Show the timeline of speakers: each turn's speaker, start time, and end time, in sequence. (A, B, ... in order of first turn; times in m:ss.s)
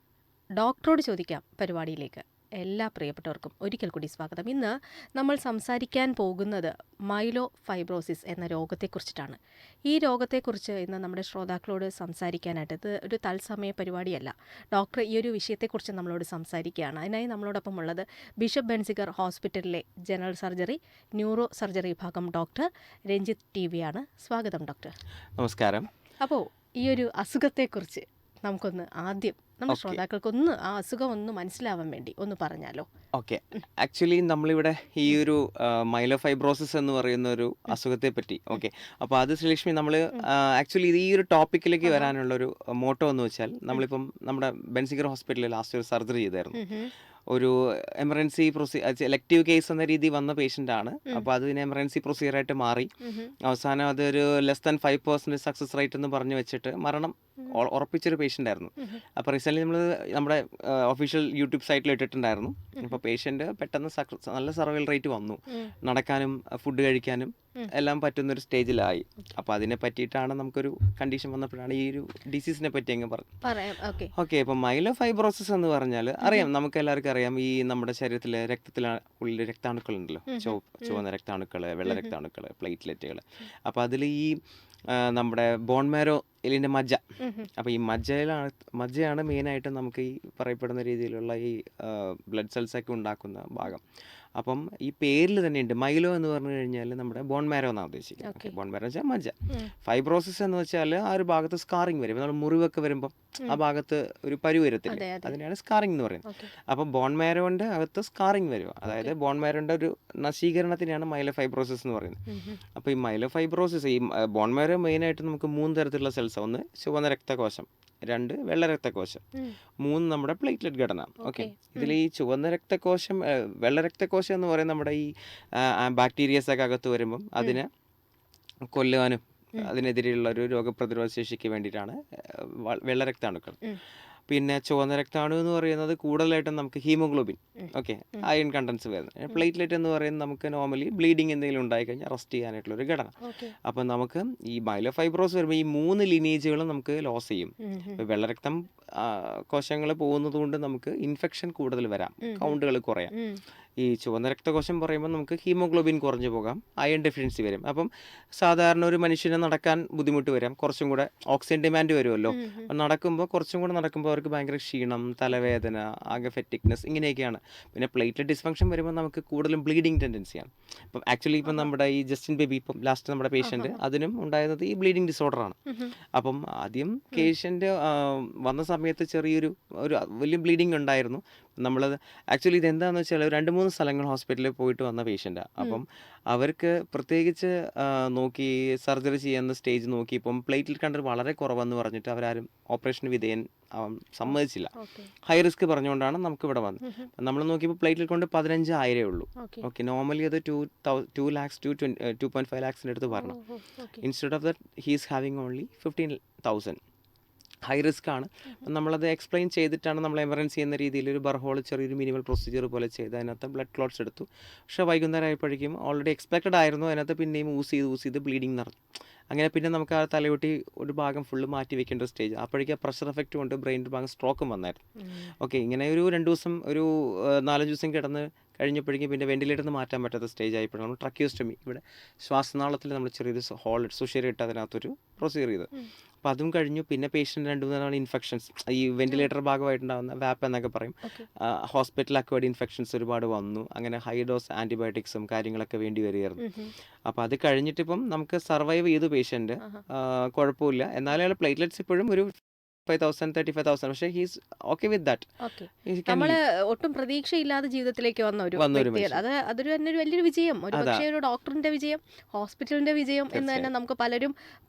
0:00.6-0:24.9 A
0:25.4-0:25.9 B
0:26.2-0:32.9 A
0:29.7-0:30.0 B
0:33.2-0:46.6 B
0:41.8-0:42.1 A
0:46.6-0:46.9 A
0:47.3-0:52.9 B
0:53.0-0:53.3 A
0:53.4-1:13.4 B
1:13.4-1:14.1 A
1:14.2-1:24.4 B
1:16.2-1:16.5 A
1:20.3-1:21.0 A
1:21.9-1:22.1 A
1:24.9-1:27.0 B
1:27.2-1:27.5 A
1:27.6-1:33.8 B
1:34.4-1:52.2 B
1:38.2-1:38.5 A
1:44.9-1:45.4 A
1:52.3-1:52.6 A
1:52.8-1:59.2 B
1:59.8-2:07.7 B
2:01.2-2:02.0 A
2:08.7-2:13.6 B
2:14.3-2:33.1 B
2:17.6-2:18.3 A
2:23.2-2:23.5 A
2:27.6-2:28.0 A
2:32.2-2:32.6 A
2:33.1-2:33.4 A
2:33.8-2:55.6 B
2:42.3-2:42.7 A
2:53.4-2:53.8 A
2:55.7-2:55.9 A
2:56.2-3:14.7 B
3:14.3-3:15.1 A
3:15.2-3:23.4 B
3:19.4-3:19.7 A
3:23.1-3:24.0 A
3:24.0-3:26.8 B
3:27.7-3:38.8 B
3:39.3-3:55.7 B
3:45.0-3:45.3 A
3:56.2-4:06.4 B
4:06.4-4:06.7 A
4:07.1-4:15.3 B
4:15.4-4:24.3 A
4:15.9-4:16.4 B
4:18.6-4:19.2 B
4:20.7-4:21.1 B
4:23.3-4:23.7 B